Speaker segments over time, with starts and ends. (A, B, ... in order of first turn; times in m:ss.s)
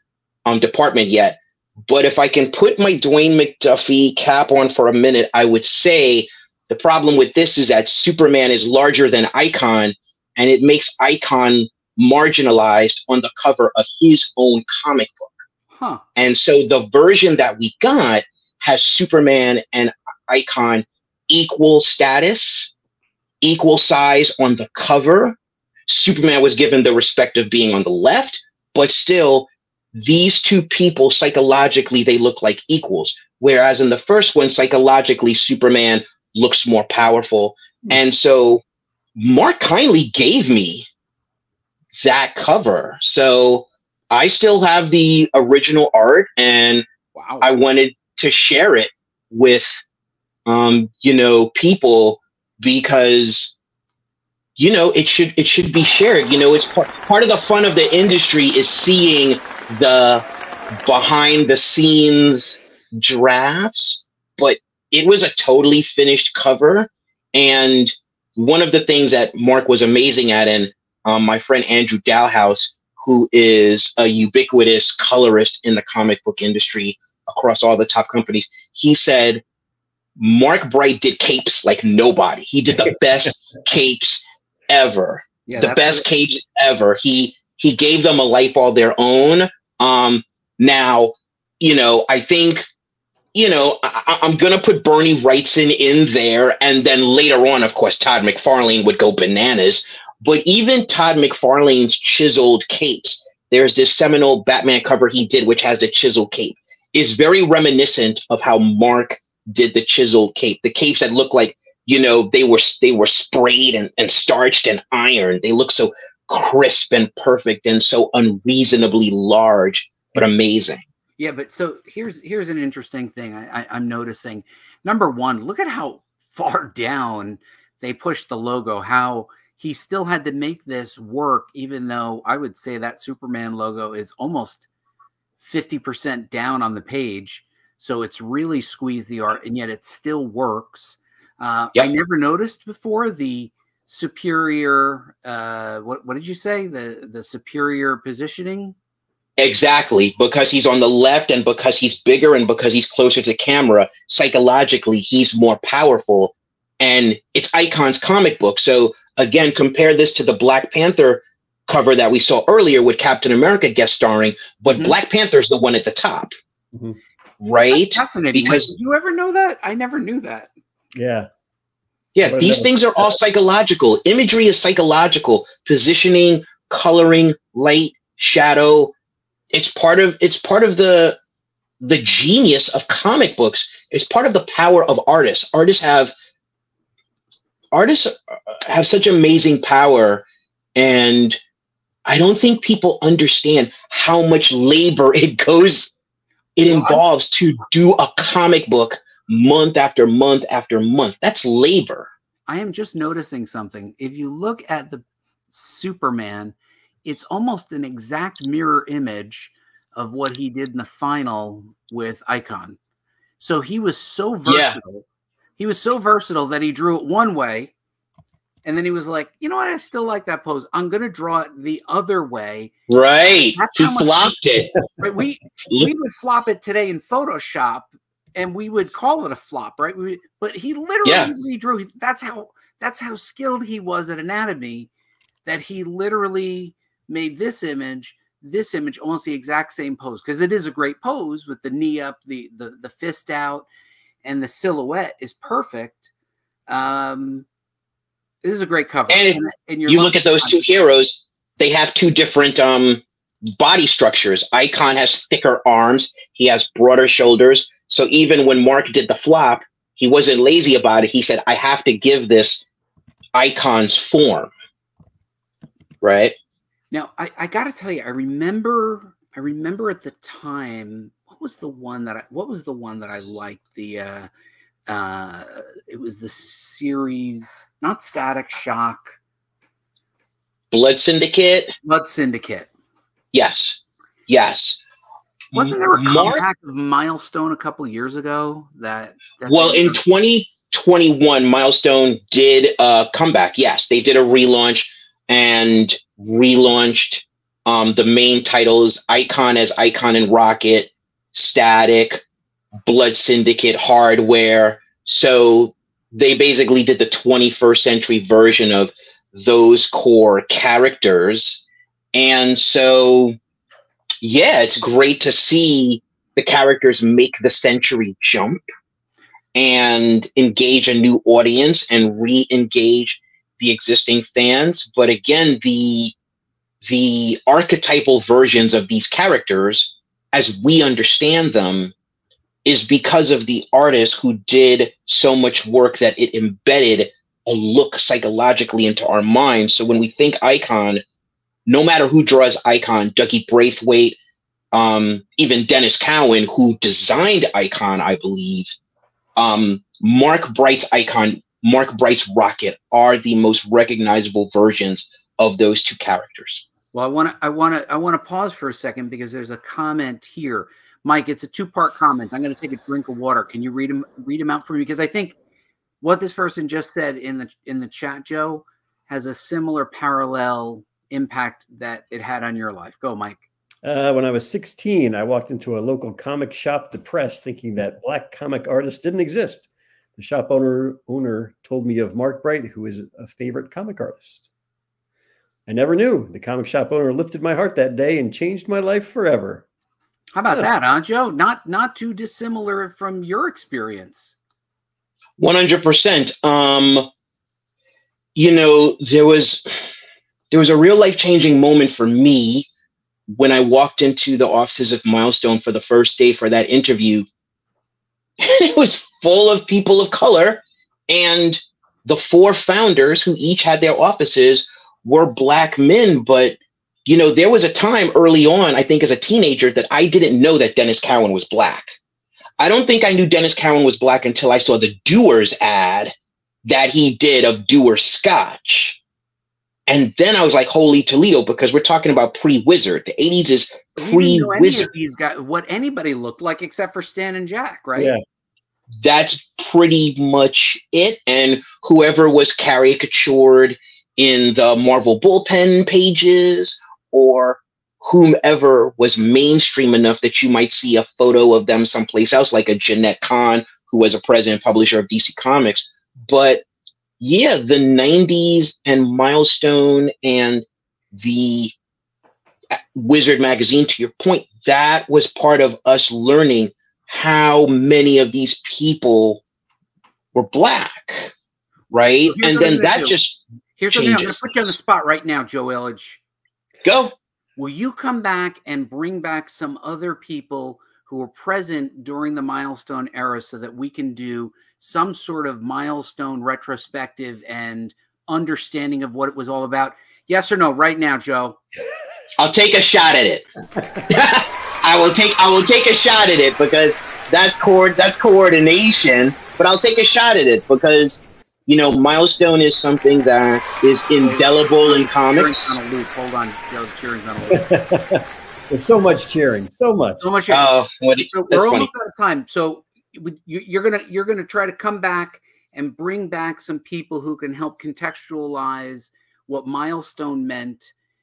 0:00.5-0:15.3 A
0:15.7-0:16.0 B
0:16.2-0:22.7 A
0:23.4-0:25.4 A
0:25.9-0:38.6 A
0:39.2-0:40.9 A
0:42.0-0:46.9 A
0:47.1-0:47.5 B
0:47.4-0:49.8 A
0:50.5-0:53.5 A
0:54.6-1:00.2 A
1:00.8-1:19.4 A
1:20.2-1:32.6 A
1:25.5-1:26.1 B
1:33.3-2:00.8 A
2:01.2-2:14.6 B
2:15.4-2:28.8 B
2:29.4-2:46.3 A
2:44.7-2:45.0 B
2:46.7-2:47.0 C
2:47.4-2:48.7 A
2:47.7-2:50.5 B
2:50.9-2:51.3 C
2:52.2-2:58.9 A
2:52.2-2:53.1 C
2:59.5-3:01.2 A
3:01.8-3:06.1 A
3:07.7-3:10.2 A
3:10.8-3:11.4 A
3:12.1-3:15.9 A
3:16.6-3:22.1 A
3:16.7-3:17.0 B
3:22.5-3:26.5 B
3:27.0-3:32.8 B
3:33.4-3:35.0 B
3:34.5-3:34.8 A
3:35.6-3:37.7 B
3:38.6-3:42.7 B
3:42.9-3:44.8 A
3:43.6-3:44.4 B
3:45.0-3:54.9 B
3:51.0-3:51.3 A
3:55.4-4:03.7 B
4:04.2-4:06.1 B
4:06.7-4:07.5 B
4:08.4-4:10.6 B
4:09.1-4:13.0 A
4:13.6-4:22.6 A
4:23.4-4:24.5 A
4:26.0-4:26.4 A
4:26.9-4:34.3 B
4:34.9-4:39.2 B
4:40.7-4:41.8 A
4:41.8-4:42.7 B
4:43.3-4:44.8 A
4:45.5-4:46.4 A
4:45.5-4:50.0 B
4:49.5-5:02.2 A
5:02.9-5:13.4 A
5:14.2-5:18.6 A
5:19.5-5:26.1 A
5:26.8-5:31.9 A
5:32.6-5:41.0 A
5:41.7-5:44.2 A
5:44.7-5:48.8 A
5:49.4-5:56.6 A
5:56.9-6:05.4 B
6:06.0-6:13.4 B
6:13.8-6:24.5 C
6:25.7-6:29.6 C
6:30.3-6:34.4 B
6:35.4-6:37.1 A
6:38.4-6:39.6 A
6:40.5-6:42.7 A
6:43.3-6:47.3 A
6:48.4-7:01.9 A
7:02.6-7:06.1 A
7:06.6-7:09.0 A
7:09.9-7:14.9 A
7:14.0-7:18.1 B
7:18.0-7:18.2 C
7:19.0-7:36.6 A
7:37.2-7:41.7 A
7:42.7-7:49.4 A
7:50.4-7:51.3 A
7:51.9-7:54.7 A
7:52.3-7:53.2 B
7:53.8-7:56.2 B
7:56.8-7:57.1 A
7:57.6-8:11.6 B
8:12.4-8:13.5 A
8:14.1-8:25.8 A
8:24.2-8:27.7 B
8:27.5-8:30.2 C
8:30.2-8:30.7 B
8:30.5-8:31.9 A
8:31.2-8:40.9 B